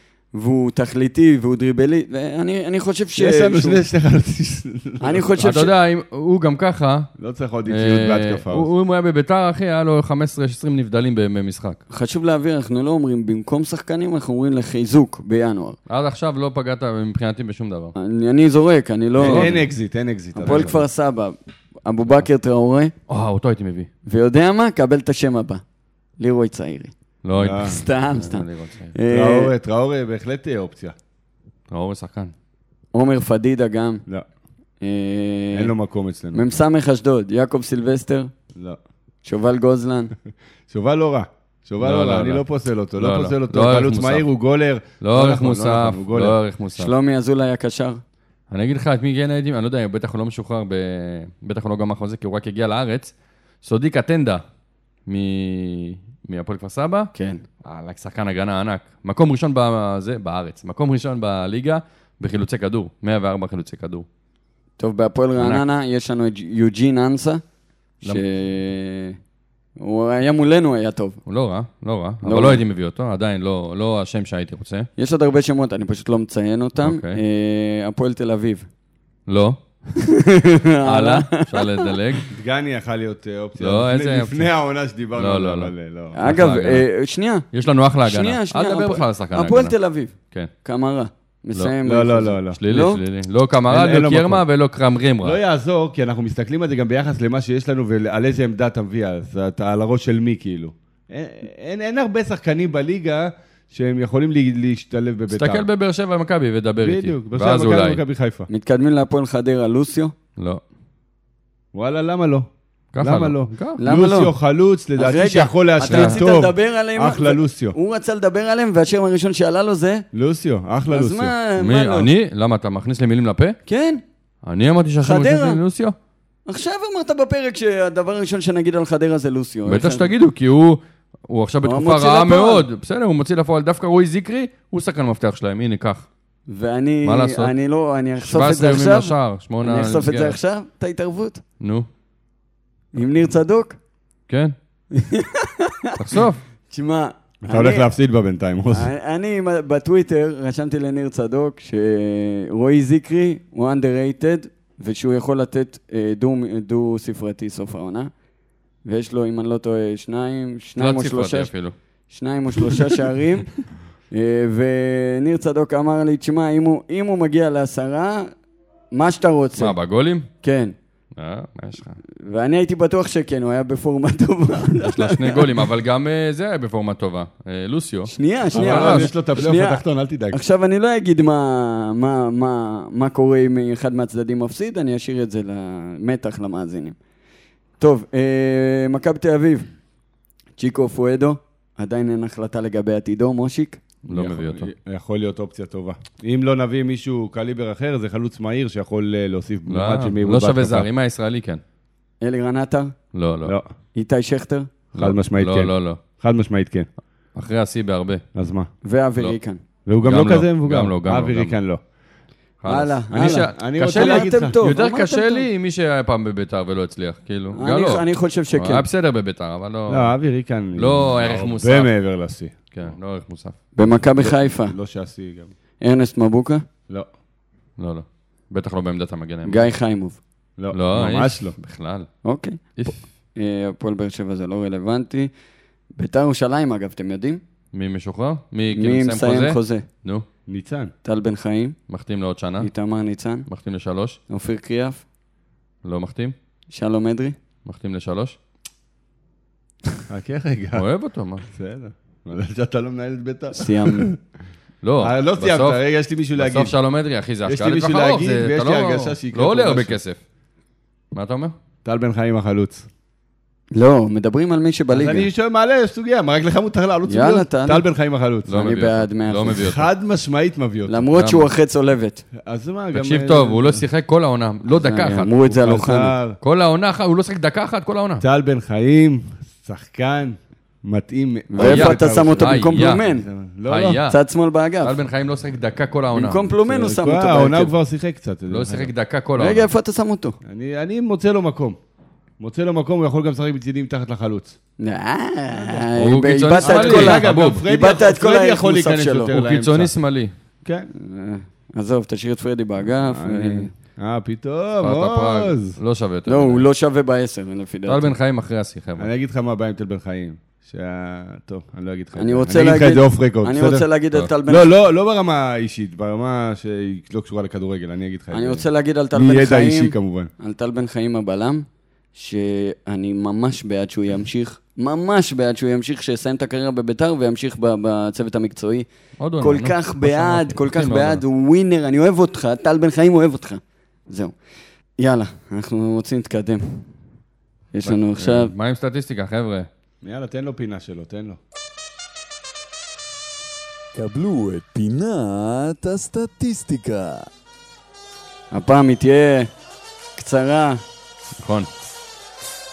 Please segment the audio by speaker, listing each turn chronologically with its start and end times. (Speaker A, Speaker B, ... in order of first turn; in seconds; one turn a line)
Speaker A: 0.3-3.8
Speaker B: 3.1-5.5
Speaker A: 5.0-5.7
Speaker C: 5.4-7.1
Speaker B: 7.2-8.7
Speaker C: 7.7-11.8
Speaker A: 11.9-15.8
Speaker C: 15.9-17.9
Speaker A: 17.9-19.5
Speaker B: 19.2-20.8
Speaker C: 19.2-19.6
Speaker A: 20.4-22.9
Speaker C: 20.5-20.7
Speaker C: 23.1-23.9
Speaker A: 24.1-25.6
Speaker A: 26.2-26.9
Speaker C: 27.2-28.9
Speaker B: 27.4-27.8
Speaker A: 27.6-29.5
Speaker B: 29.1-30.9
Speaker C: 31.7-32.3
Speaker A: 32.9-34.0
Speaker A: 34.8-35.7
Speaker B: 35.5-36.5
Speaker A: 36.3-38.3
Speaker B: 38.5-38.8
Speaker A: 39.2-40.1
Speaker B: 40.7-46.4
Speaker C: 41.8-42.4
Speaker C: 43.0-44.3
Speaker C: 45.0-46.9
Speaker A: 46.7-48.0
Speaker C: 48.5-54.4
Speaker C: 55.1-57.1
Speaker A: 57.1-57.4
Speaker C: 57.6-64.0
Speaker A: 64.8-67.4
Speaker C: 65.4-65.6
Speaker A: 68.0-69.2
Speaker A: 69.8-71.2
Speaker C: 71.2-74.9
Speaker A: 72.2-72.6
Speaker A: 75.0-78.7
Speaker C: 76.8-77.2
Speaker C: 79.3-79.6
Speaker A: 80.0-81.9
Speaker C: 80.8-82.3
Speaker B: 82.3-86.2
Speaker C: 83.6-84.5
Speaker C: 85.1-86.9
Speaker A: 86.1-87.5
Speaker C: 87.5-89.8
Speaker A: 88.0-93.0
Speaker B: 91.8-92.6
Speaker C: 92.5-95.4
Speaker B: 93.7-94.4
Speaker B: 95.2-105.7
Speaker C: 105.3-108.0
Speaker B: 106.8-108.5
Speaker A: 108.5-110.1
Speaker C: 110.4-110.6
Speaker B: 111.7-117.8
Speaker C: 112.9-113.8
Speaker A: 113.8-114.3
Speaker A: 115.0-120.0
Speaker C: 115.9-116.2
Speaker B: 120.1-121.3
Speaker A: 120.9-122.1
Speaker C: 121.6-123.6
Speaker A: 123.7-124.0
Speaker C: 124.4-125.9
Speaker A: 125.0-125.6
Speaker A: 126.5-130.1
Speaker C: 129.7-136.1
Speaker A: 131.6-132.6
Speaker A: 136.5-141.4
Speaker C: 137.0-137.5
Speaker C: 138.2-140.4
Speaker C: 141.6-141.9
Speaker A: 142.9-143.8
Speaker C: 144.3-144.5
Speaker A: 144.9-147.9
Speaker C: 146.0-146.4
Speaker B: 147.4-148.9
Speaker A: 148.7-158.1
Speaker A: 158.8-161.5
Speaker C: 160.8-161.7
Speaker A: 162.1-163.5
Speaker C: 162.6-162.9
Speaker A: 164.1-168.3
Speaker A: 168.9-169.8
Speaker C: 169.6-170.3
Speaker A: 170.4-170.7
Speaker C: 171.1-172.0
Speaker A: 172.2-175.5
Speaker C: 174.8-179.1
Speaker A: 178.1-186.9
Speaker B: 178.5-180.4
Speaker A: 187.8-189.7
Speaker A: 190.6-193.8
Speaker C: 194.0-194.7
Speaker B: 194.1-200.9
Speaker C: 199.7-201.6
Speaker A: 202.2-202.9
Speaker C: 203.1-203.6
Speaker B: 203.4-203.7
Speaker A: 203.9-204.7
Speaker C: 204.9-206.0
Speaker B: 204.9-206.9
Speaker C: 207.3-208.2
Speaker B: 208.3-208.7
Speaker A: 208.8-209.6
Speaker B: 209.8-211.8
Speaker C: 210.0-211.6
Speaker C: 212.6-220.1
Speaker A: 212.7-215.4
Speaker B: 213.1-214.7
Speaker A: 217.5-218.8
Speaker B: 219.9-222.7
Speaker C: 220.8-221.9
Speaker C: 222.7-223.6
Speaker A: 223.7-224.7
Speaker B: 224.0-225.5
Speaker A: 225.8-226.6
Speaker C: 227.8-229.7
Speaker A: 229.4-230.2
Speaker B: 230.6-231.5
Speaker C: 230.7-232.1
Speaker A: 232.2-235.3
Speaker A: 235.9-237.4
Speaker C: 237.7-240.2
Speaker A: 238.7-239.8
Speaker B: 240.5-240.9
Speaker A: 241.0-241.8
Speaker C: 241.9-242.7
Speaker A: 242.6-243.5
Speaker C: 243.5-244.2
Speaker A: 244.3-245.0
Speaker C: 245.8-246.3
Speaker A: 246.7-247.4
Speaker C: 247.6-248.4
Speaker B: 250.1-250.8
Speaker C: 250.7-251.4
Speaker B: 251.5-254.2
Speaker A: 253.5-254.1
Speaker C: 254.8-255.8
Speaker B: 255.0-256.8
Speaker C: 256.3-260.2
Speaker B: 257.4-260.0
Speaker C: 261.1-261.5
Speaker B: 261.8-262.9
Speaker A: 263.7-265.3
Speaker B: 264.9-268.6
Speaker A: 267.1-267.9
Speaker C: 268.5-269.9
Speaker A: 268.5-269.6
Speaker B: 269.5-271.1
Speaker A: 270.9-272.2
Speaker C: 271.1-271.5
Speaker B: 272.4-273.8
Speaker C: 272.9-275.3
Speaker A: 274.7-276.1
Speaker B: 275.5-276.4
Speaker C: 276.4-278.2
Speaker B: 278.2-284.0
Speaker A: 281.5-283.2
Speaker C: 281.6-283.0
Speaker C: 283.7-284.2
Speaker A: 284.1-284.9
Speaker C: 284.8-286.5
Speaker A: 286.1-287.7
Speaker B: 286.7-288.9
Speaker C: 288.5-289.7
Speaker A: 289.4-290.4
Speaker B: 290.4-291.8
Speaker B: 292.4-294.6
Speaker A: 294.8-299.3
Speaker B: 295.5-295.9
Speaker C: 296.0-297.6
Speaker B: 296.6-299.9
Speaker C: 299.3-300.3
Speaker A: 300.9-303.7
Speaker B: 303.0-305.8
Speaker C: 304.8-306.6
Speaker A: 306.3-308.1
Speaker C: 307.9-309.1
Speaker B: 309.0-313.9
Speaker A: 312.1-314.7
Speaker B: 314.4-320.3
Speaker A: 318.3-328.9
Speaker C: 329.2-331.2
Speaker A: 329.4-334.3
Speaker A: 335.0-336.9
Speaker A: 337.7-338.5
Speaker C: 337.8-339.7
Speaker B: 340.0-341.4
Speaker D: 343.9-347.3
Speaker A: 348.5-349.5
Speaker A: 350.2-350.8
Speaker C: 351.4-351.7